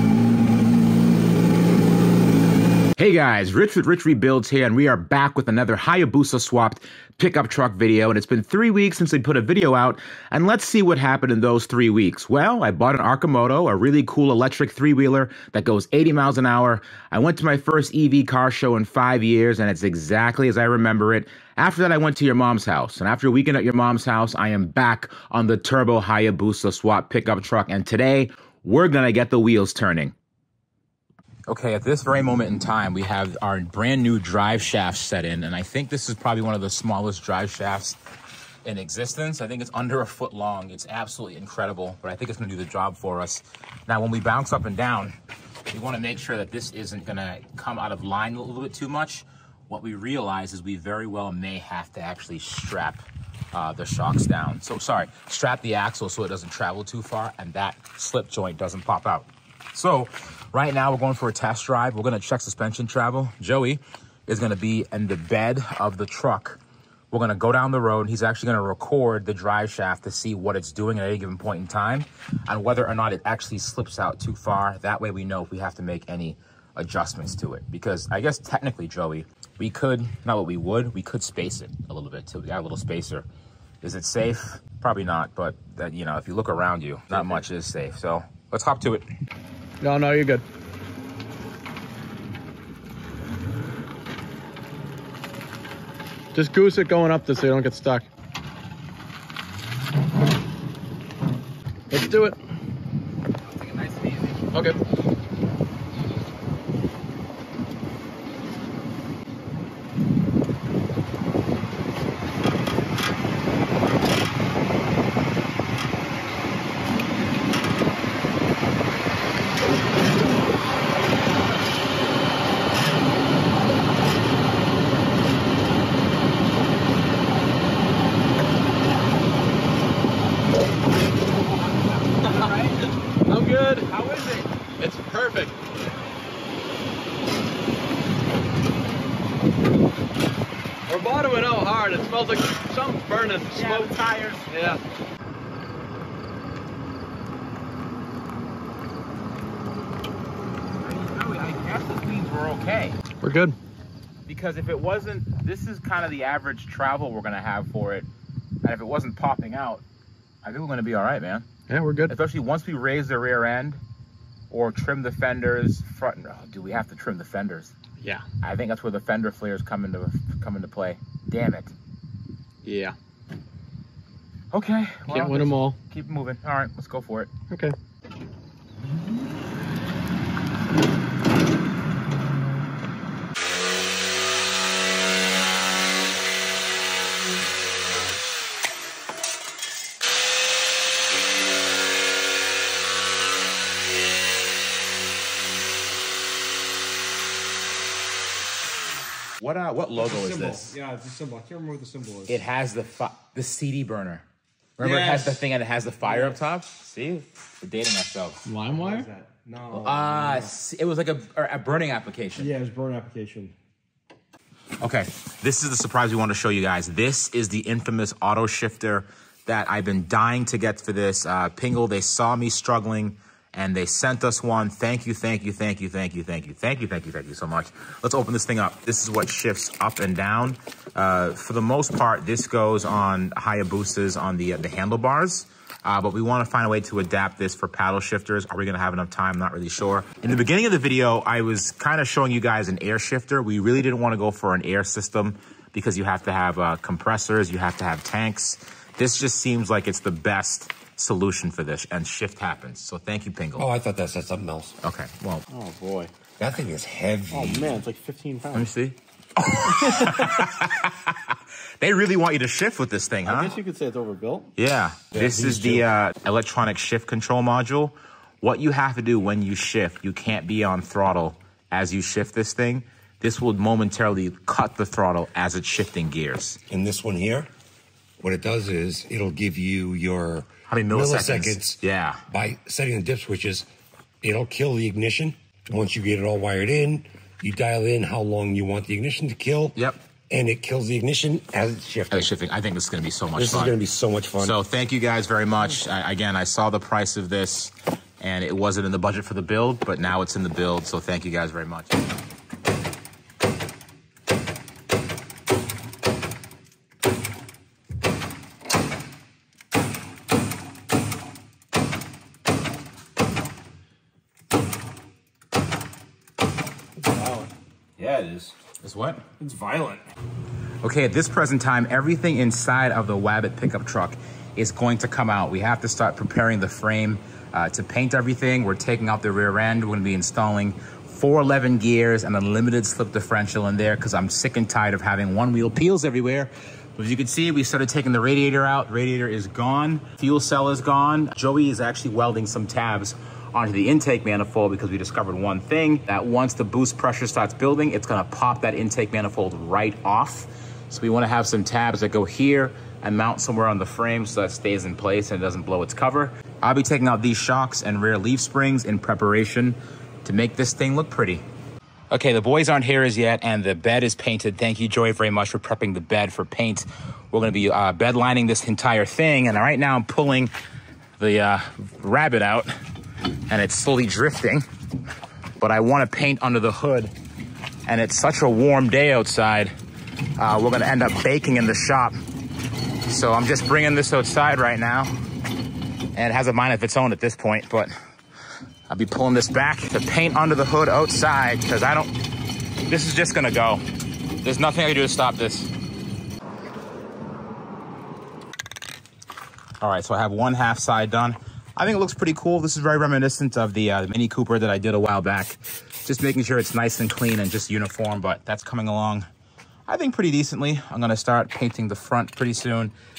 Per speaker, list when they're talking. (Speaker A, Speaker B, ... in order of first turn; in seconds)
Speaker A: 3.0-30.1, 31.5-38.0, 38.6-45.1, 45.7-66.6, 67.1-83.3, 83.8-89.1, 103.6-104.4, 132.2-132.8, 133.8-134.4, 143.5-144.5, 150.8-153.0, 154.3-158.1, 158.6-159.8, 160.4-161.5, 162.1-163.8, 164.5-167.7, 168.4-171.7, 174.5-177.3, 199.4-200.8, 202.3-204.2, 204.8-208.4, 209.7-212.5, 214.8-253.7, 254.8-255.4, 258.5-263.6, 264.6-276.6, 280.7-282.2, 289.7-290.0, 292.1-293.8, 294.4-302.0, 318.6-319.2, 320.8-361.4, 362.1-370.5, 371.2-372.7, 373.5-374.6, 375.6-377.1, 377.9-379.7, 380.4-382.2, 383.1-385.1, 386.1-387.9, 388.9-392.1, 392.8-393.8, 394.4-395.7, 399.8-409.3, 409.9-412.9
Speaker B: 89.8-90.4, 96.3-98.0, 101.9-102.4, 104.5-104.8, 132.2-132.5, 133.2-134.2, 134.8-135.5, 140.9-143.9, 144.5-144.8, 153.2-153.6, 161.7-162.1, 172.6-172.9, 175.1-175.8, 208.4-209.1, 255.5-256.1, 257.3-258.7, 259.7-260.5, 263.2-264.5
Speaker C: 200.0-202.4, 204.8-205.4, 206.0-206.4, 208.7-210.5, 212.4-213.5, 317.0-318.5, 319.4-320.0
Speaker D: 253.6-254.8, 256.4-257.8, 265.1-265.9, 276.7-277.5, 278.2-283.7, 284.2-289.8, 290.3-292.3, 293.4-294.6